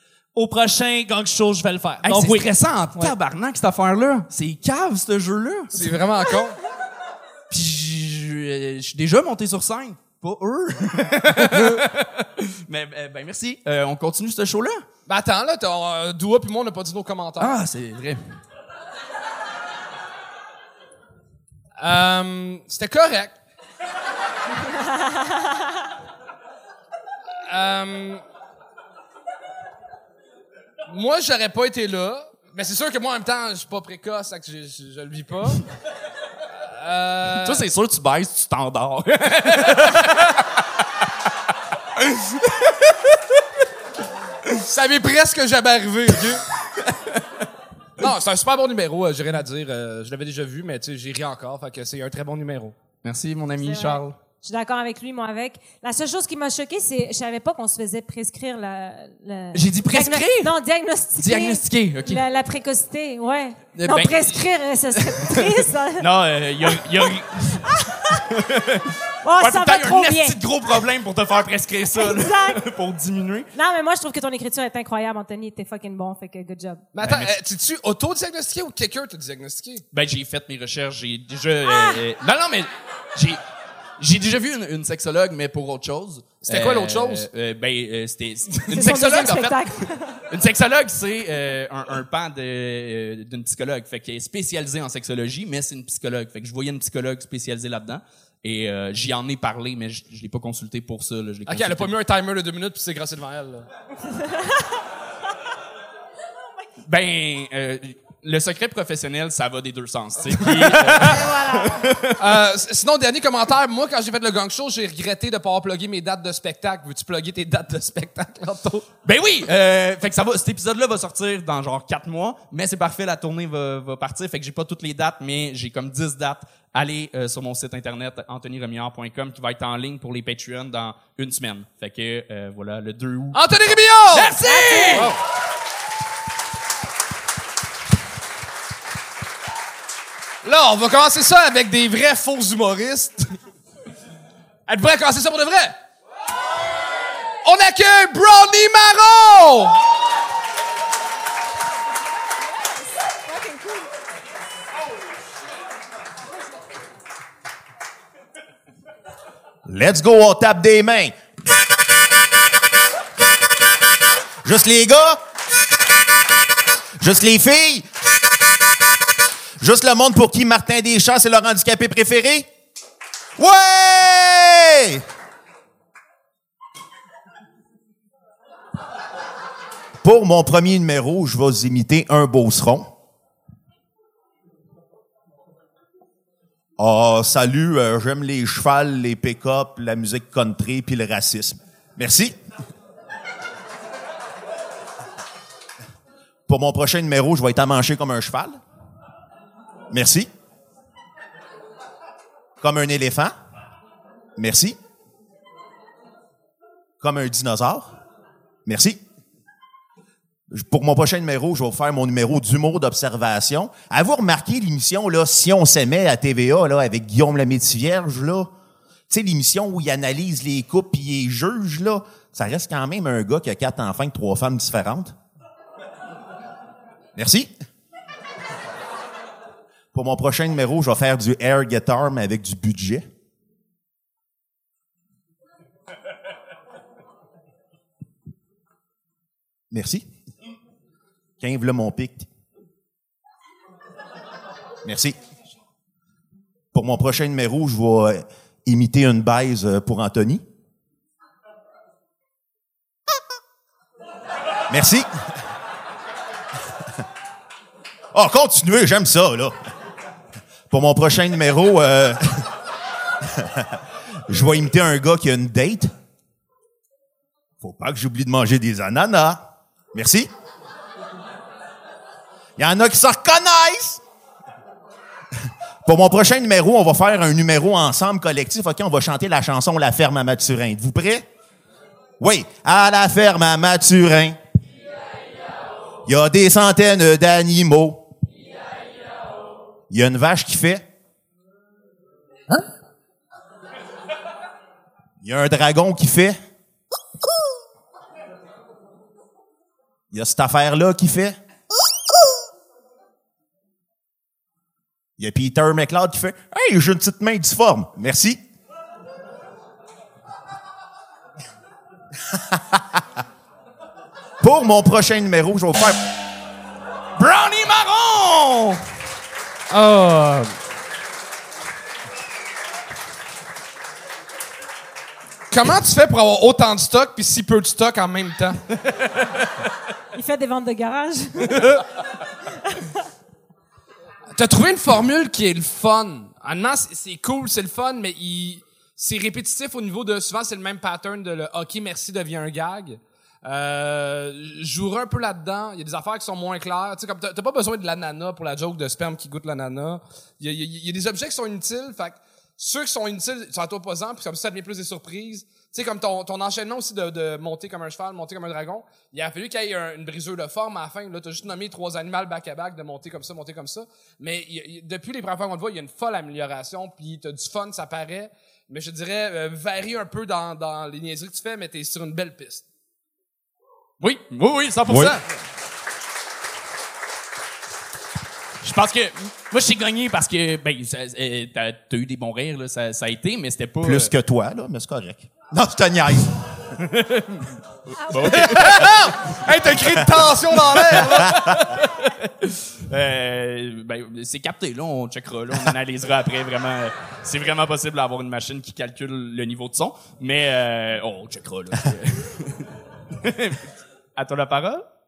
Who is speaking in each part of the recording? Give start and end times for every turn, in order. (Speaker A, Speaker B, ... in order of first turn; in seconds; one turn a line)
Speaker A: 0.3-3.1
Speaker B: 2.0-5.9
Speaker C: 5.7-6.6
Speaker B: 7.5-14.8
Speaker C: 15.1-17.5
Speaker B: 17.4-18.4
Speaker C: 21.8-23.3
Speaker C: 27.5-28.2
Speaker C: 30.9-35.6
Speaker C: 36.8-37.6
Speaker B: 37.4-40.3
Speaker B: 42.0-43.0
Speaker C: 44.6-46.4
Speaker C: 48.0-52.8
Speaker B: 53.0-54.1
Speaker D: 53.6-66.1
Speaker B: 59.5-60.5
Speaker B: 61.2-62.2
Speaker B: 63.7-64.4
Speaker B: 65.0-73.5
Speaker D: 67.7-68.2
Speaker D: 69.2-70.4
Speaker D: 72.0-72.6
Speaker D: 73.5-76.8
Speaker C: 76.9-79.8
Speaker B: 77.0-77.3
Speaker B: 79.9-83.4
Speaker D: 81.6-82.0
Speaker B: 84.0-101.9
Speaker C: 86.4-87.3
Speaker D: 88.7-90.2
Speaker C: 101.5-103.7
Speaker D: 104.1-104.6
Speaker B: 106.8-112.2
Speaker C: 110.3-111.2
Speaker D: 111.0-111.8
Speaker C: 112.2-118.8
Speaker B: 119.0-133.4
Speaker C: 133.3-134.3
Speaker B: 134.1-135.1
Speaker D: 134.4-135.1
Speaker C: 140.4-143.4
Speaker C: 144.7-145.7
Speaker C: 147.4-149.8
Speaker D: 153.3-153.8
Speaker E: 159.7-161.1
Speaker E: 164.4-165.2
Speaker E: 167.0-167.9
Speaker E: 169.6-172.5
Speaker E: 173.4-175.0
Speaker E: 180.0-182.9
Speaker E: 186.8-192.4
Speaker E: 196.5-198.6
Speaker E: 199.9-200.3
Speaker E: 202.6-203.3
Speaker E: 204.4-204.8
Speaker E: 207.0-207.9
Speaker E: 208.6-209.0
Speaker E: 210.5-218.5
Speaker E: 219.1-225.1
Speaker E: 227.1-227.5
Speaker E: 229.9-233.1
Speaker E: 239.7-240.1
Speaker E: 241.4-242.3
Speaker E: 244.8-245.2
Speaker E: 246.7-250.4
Speaker E: 254.7-255.1
Speaker E: 258.1-259.6
Speaker E: 260.7-262.4
Speaker E: 263.3-265.9
Speaker E: 267.6-270.3
Speaker E: 272.6-274.0
Speaker E: 275.8-281.2
Speaker E: 282.2-284.4
Speaker E: 286.1-288.1
Speaker E: 289.9-290.8
Speaker E: 295.2-296.3
Speaker E: 300.1-301.4
Speaker E: 305.2-308.4
Speaker E: 312.3-313.0
Speaker E: 314.4-316.0
Speaker B: 317.2-318.8
Speaker C: 319.7-320.5
Speaker C: 325.5-328.8
Speaker D: 330.1-331.7
Speaker C: 334.3-372.6
Speaker B: 374.0-375.2
Speaker E: 374.9-375.2
Speaker B: 378.6-384.1
Speaker E: 383.8-386.6
Speaker B: 386.8-389.0
Speaker D: 388.0-388.4
Speaker C: 388.3-391.8
Speaker B: 391.2-404.9